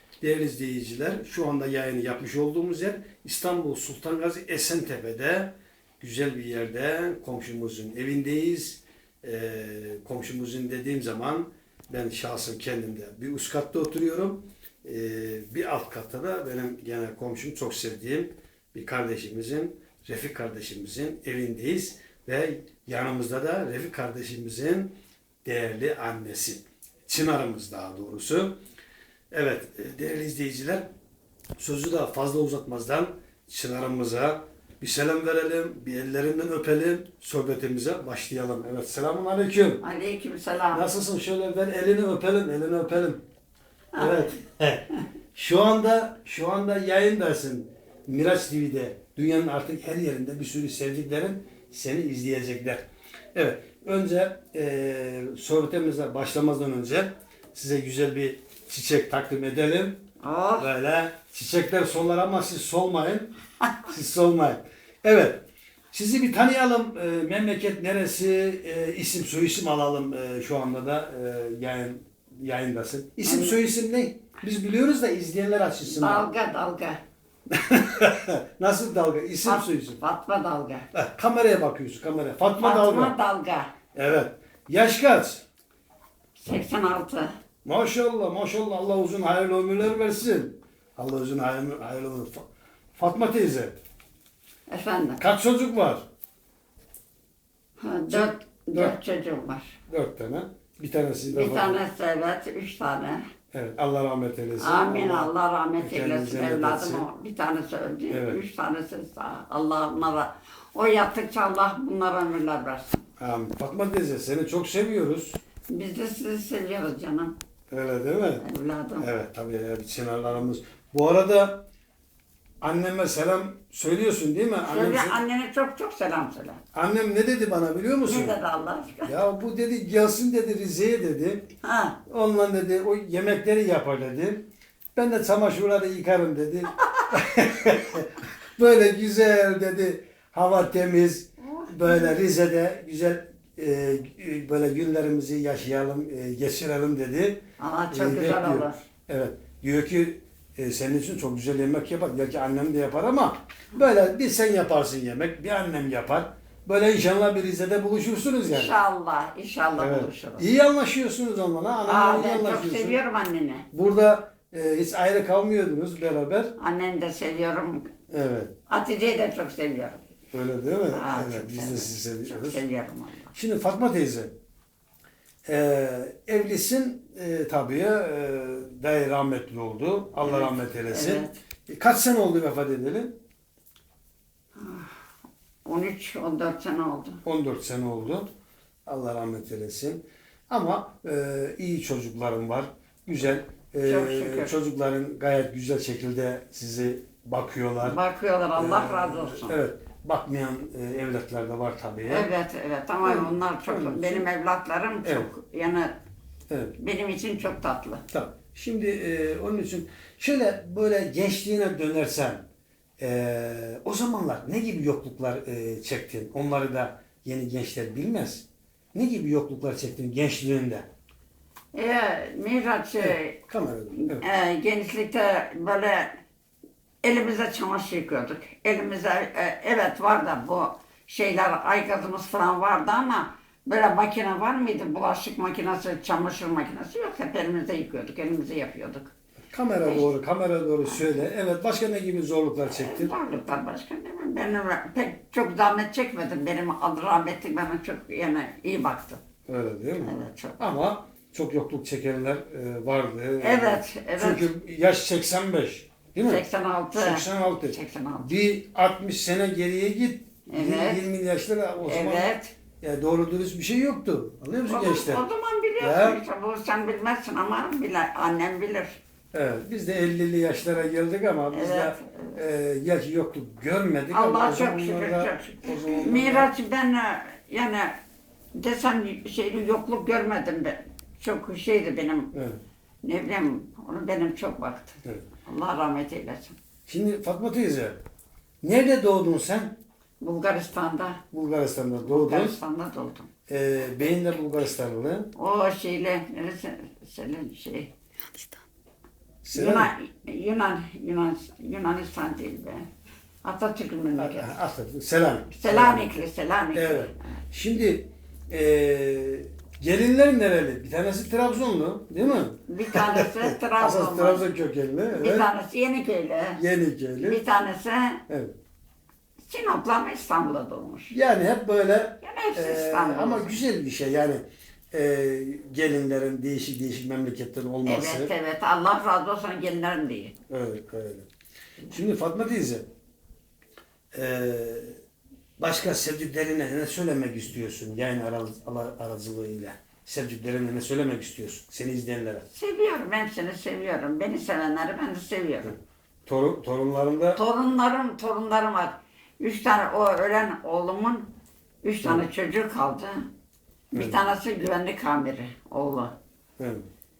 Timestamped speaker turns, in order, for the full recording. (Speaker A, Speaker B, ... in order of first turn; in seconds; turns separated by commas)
Speaker A: 0.2-24.9, Speaker A: 25.4-28.6, Speaker A: 29.3-30.8, Speaker A: 31.6-39.8, Speaker B: 39.8-40.9, Speaker A: 40.7-43.2, Speaker B: 43.9-44.2, Speaker A: 44.0-52.8, Speaker A: 53.3-60.0, Speaker B: 60.2-60.7, Speaker A: 60.6-63.3, Speaker A: 63.9-76.2, Speaker B: 73.2-73.6, Speaker B: 75.8-77.0, Speaker A: 77.5-80.0, Speaker B: 79.4-80.9, Speaker A: 80.9-83.2, Speaker B: 82.6-83.7, Speaker A: 83.9-85.4, Speaker B: 86.3-87.3, Speaker A: 87.6-93.8, Speaker B: 94.7-95.2, Speaker A: 95.2-96.0, Speaker B: 97.8-99.7, Speaker A: 98.1-98.9, Speaker A: 99.9-101.8, Speaker B: 101.3-103.2, Speaker A: 103.5-107.0, Speaker B: 104.6-113.0, Speaker A: 108.1-108.4, Speaker A: 113.2-115.4, Speaker B: 115.7-117.3, Speaker A: 117.7-118.4, Speaker B: 118.4-119.1, Speaker A: 119.0-121.6, Speaker A: 122.6-125.2, Speaker B: 124.6-126.6, Speaker A: 126.7-128.4, Speaker B: 128.0-129.2, Speaker A: 129.0-131.5, Speaker B: 131.6-132.0, Speaker A: 132.1-158.7, Speaker B: 141.6-142.0, Speaker B: 147.6-148.8, Speaker B: 158.5-160.5, Speaker A: 159.8-163.0, Speaker B: 161.8-163.7, Speaker A: 163.7-166.5, Speaker B: 166.6-167.9, Speaker A: 168.1-168.5, Speaker B: 168.7-170.0, Speaker A: 170.3-172.6, Speaker B: 170.9-173.3, Speaker A: 173.3-174.3, Speaker A: 175.4-183.2, Speaker B: 180.2-181.4, Speaker B: 184.6-184.9, Speaker B: 185.6-187.2, Speaker A: 187.2-188.3, Speaker A: 188.8-198.0, Speaker B: 193.8-194.5, Speaker B: 197.8-199.6, Speaker A: 198.6-202.3, Speaker B: 202.1-205.9, Speaker A: 203.0-204.3, Speaker A: 205.0-205.3, Speaker A: 206.5-206.7, Speaker B: 206.8-208.0, Speaker A: 208.1-212.4, Speaker A: 213.0-220.8, Speaker B: 221.7-223.3, Speaker A: 223.0-224.2, Speaker B: 224.0-226.2, Speaker B: 227.0-239.1, Speaker A: 239.5-243.1, Speaker B: 239.8-240.1, Speaker B: 242.7-249.2, Speaker A: 249.5-265.2, Speaker B: 250.0-250.6, Speaker B: 253.4-254.5, Speaker B: 256.2-258.3, Speaker B: 260.5-261.1, Speaker B: 261.9-262.5, Speaker B: 264.6-269.0, Speaker A: 265.8-266.2, Speaker A: 269.3-276.5, Speaker B: 271.5-272.4, Speaker B: 274.1-277.9, Speaker B: 278.5-282.3, Speaker A: 282.3-282.6, Speaker B: 283.0-284.9, Speaker B: 285.5-286.6, Speaker A: 286.9-288.0, Speaker A: 288.6-289.8, Speaker B: 290.2-291.2, Speaker A: 291.3-292.6, Speaker B: 292.0-293.3, Speaker A: 293.5-295.3, Speaker B: 295.4-297.9, Speaker A: 299.4-299.9, Speaker B: 299.5-302.9, Speaker B: 303.4-304.5, Speaker A: 304.1-306.1, Speaker B: 305.5-307.2, Speaker A: 306.7-315.5, Speaker B: 312.6-314.5, Speaker B: 315.1-316.6, Speaker A: 316.6-317.4, Speaker B: 317.2-318.2, Speaker A: 318.3-318.5, Speaker B: 319.5-321.1, Speaker A: 321.1-328.3, Speaker B: 322.2-323.6, Speaker B: 327.8-330.3, Speaker A: 330.5-331.3, Speaker A: 331.9-332.9, Speaker A: 334.1-334.9, Speaker A: 335.6-342.4, Speaker B: 342.5-345.8, Speaker A: 346.2-347.4, Speaker B: 347.3-351.3, Speaker B: 351.8-353.2, Speaker B: 353.9-356.1, Speaker A: 353.9-354.2, Speaker A: 356.6-356.8